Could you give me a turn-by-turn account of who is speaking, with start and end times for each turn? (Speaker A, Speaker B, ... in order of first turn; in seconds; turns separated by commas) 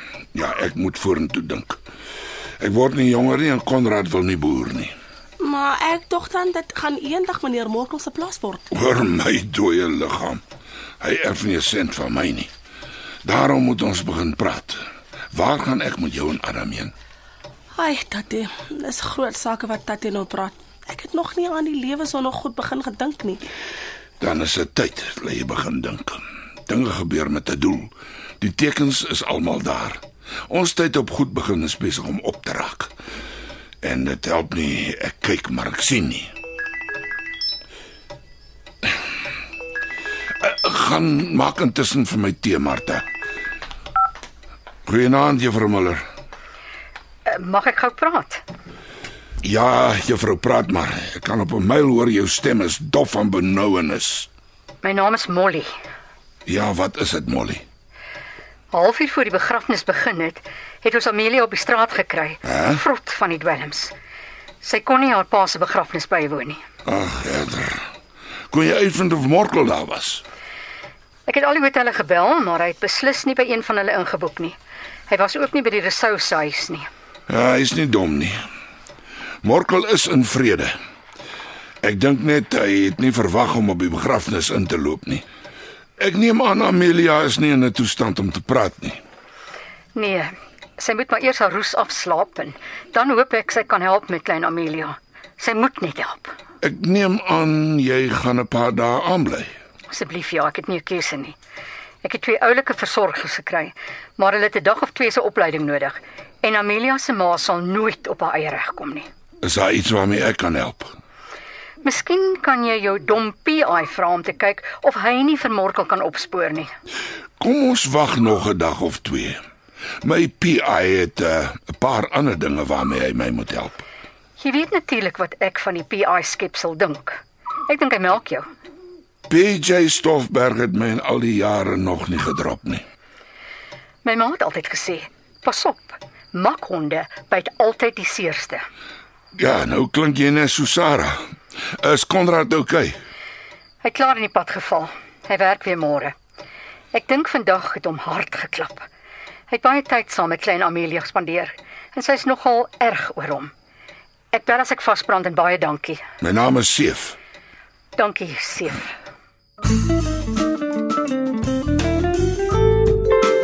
Speaker A: 0.3-1.8, Speaker A: 2.6-4.9, Speaker B: 5.4-8.6, Speaker A: 8.7-10.4, Speaker A: 11.0-12.5, Speaker A: 13.2-16.9, Speaker B: 17.7-23.4, Speaker A: 24.2-32.9, Speaker A: 33.8-36.3, Speaker A: 40.4-43.0, Speaker A: 44.9-46.0, Speaker C: 47.2-48.4, Speaker A: 49.4-54.3, Speaker C: 54.8-55.7, Speaker A: 56.5-57.6, Speaker C: 58.7-63.9, Speaker A: 62.4-62.8, Speaker C: 64.6-66.6, Speaker A: 66.8-67.8, Speaker A: 68.5-70.2, Speaker C: 71.3-74.5, Speaker C: 75.1-76.9, Speaker A: 77.3-78.4, Speaker A: 79.4-80.8, Speaker A: 81.8-85.2, Speaker A: 86.0-89.0, Speaker C: 89.9-96.3, Speaker A: 96.6-99.5, Speaker C: 99.9-101.3, Speaker C: 102.0-109.1, Speaker A: 109.4-110.9, Speaker C: 111.8-116.7, Speaker A: 117.4-119.4, Speaker A: 120.0-123.8, Speaker C: 124.4-128.4, Speaker A: 129.3-132.8, Speaker C: 134.0-138.6, Speaker A: 139.3-141.2, Speaker A: 141.8-142.9, Speaker C: 143.8-146.1, Speaker C: 146.9-148.8, Speaker C: 149.5-153.5, Speaker C: 154.3-156.0, Speaker A: 156.2-157.2, Speaker C: 157.9-158.9